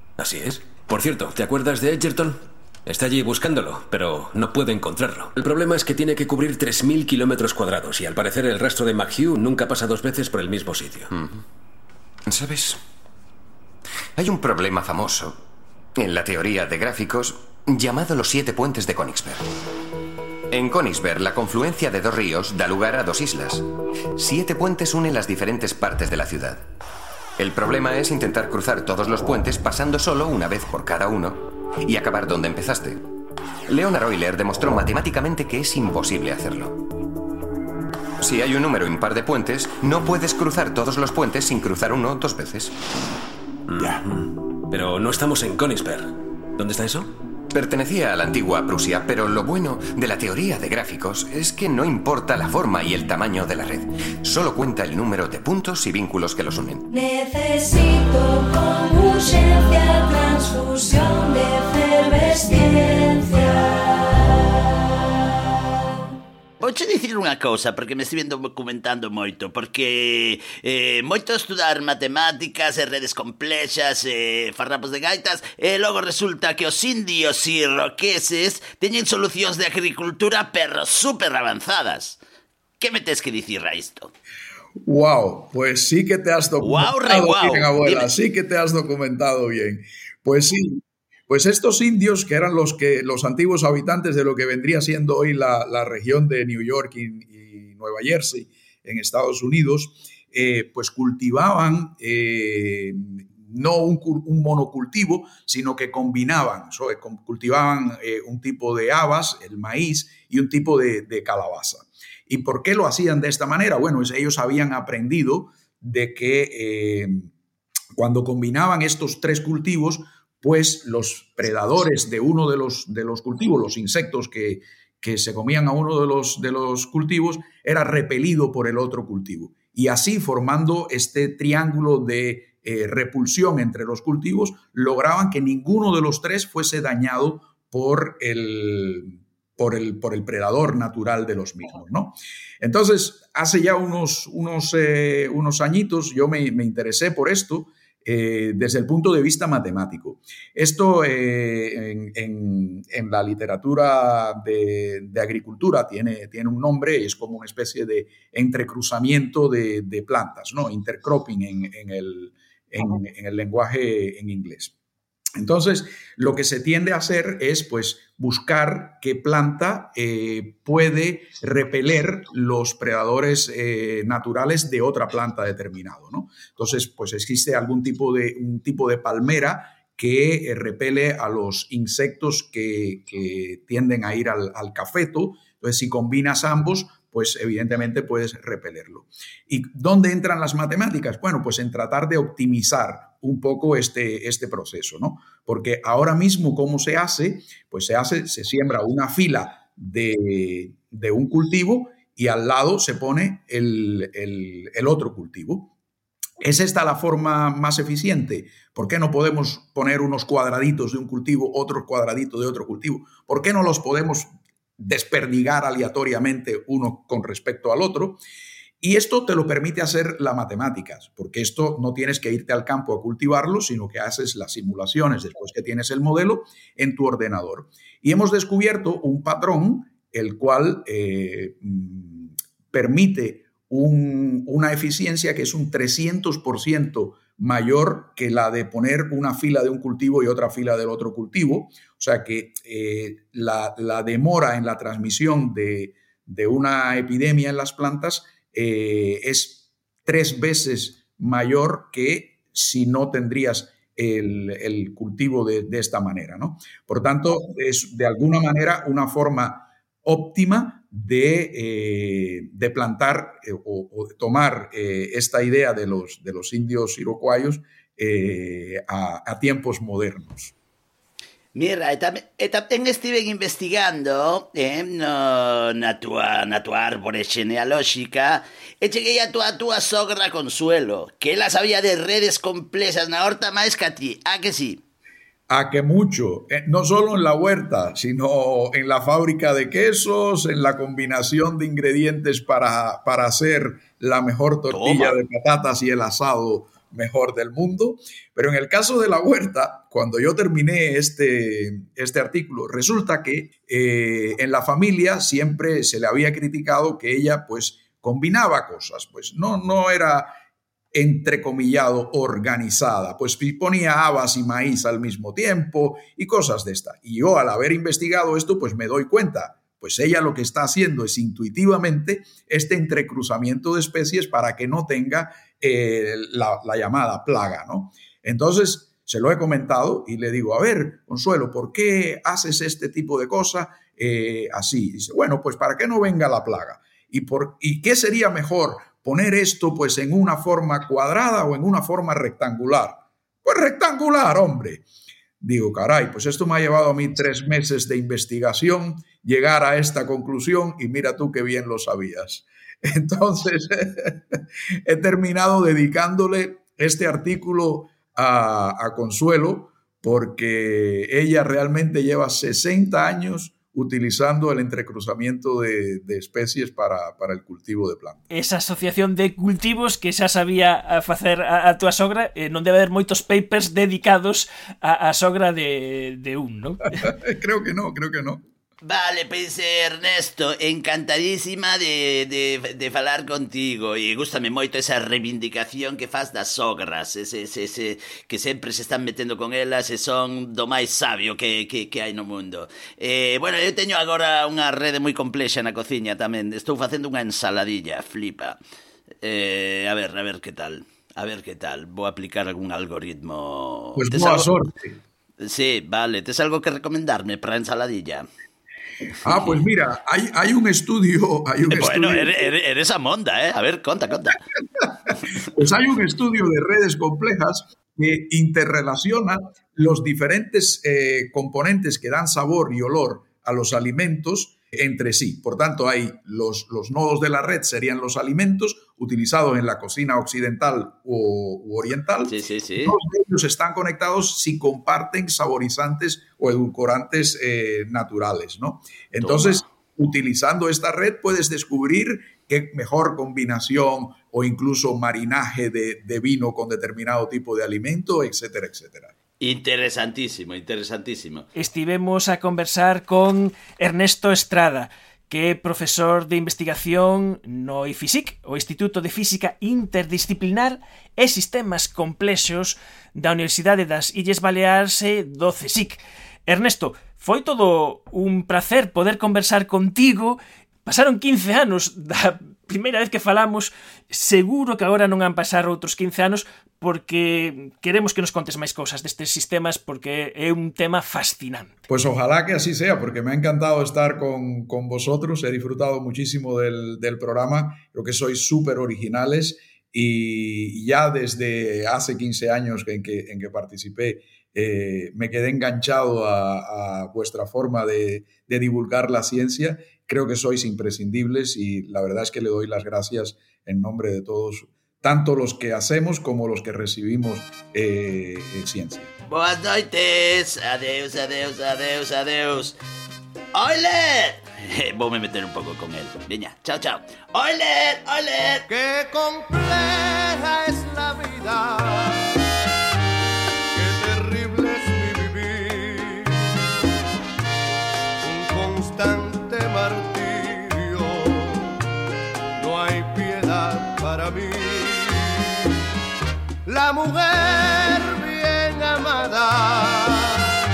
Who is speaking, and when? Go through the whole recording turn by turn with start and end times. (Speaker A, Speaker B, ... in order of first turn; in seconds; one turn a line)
Speaker A: 0.2-11.1
Speaker B: 11.1-11.4
Speaker B: 12.3-12.8
Speaker B: 14.2-15.4
Speaker B: 15.9-19.5
Speaker B: 20.5-26.6
Speaker B: 27.4-33.0
Speaker B: 33.7-36.8
Speaker B: 38.2-42.7
Speaker A: 43.7-47.1
Speaker B: 47.5-56.9
Speaker C: 56.9-64.3
Speaker D: 66.6-82.2
Speaker D: 82.8-84.1
Speaker E: 84.8-117.3
Speaker D: 86.6-88.1
Speaker E: 117.9-164.7
Speaker E: 165.3-205.7
Speaker E: 206.4-218.2
Speaker E: 218.8-270.5
Speaker D: 271.5-284.8
Speaker E: 285.5-310.4
Speaker D: 294.7-295.2
Speaker E: 310.9-344.8
Speaker E: 345.4-368.2
Speaker F: 368.3-377.0
Speaker E: 377.0-378.4
Speaker D: 378.8-398.6
Speaker D: 399.2-404.5
Speaker E: 403.9-405.0
Speaker D: 405.4-408.2
Speaker E: 409.2-412.5
Speaker D: 411.7-414.4
Speaker E: 415.5-449.1
Speaker D: 432.3-432.9
Speaker D: 439.2-439.6
Speaker D: 449.4-451.5
Speaker F: 451.5-481.8
Speaker E: 481.9-509.1
Speaker D: 509.3-512.8
Speaker D: 513.5-518.6
Speaker G: 518.7-522.3
Speaker G: 523.7-526.6
Speaker G: 528.2-531.7
Speaker G: 532.6-535.8
Speaker G: 536.6-540.4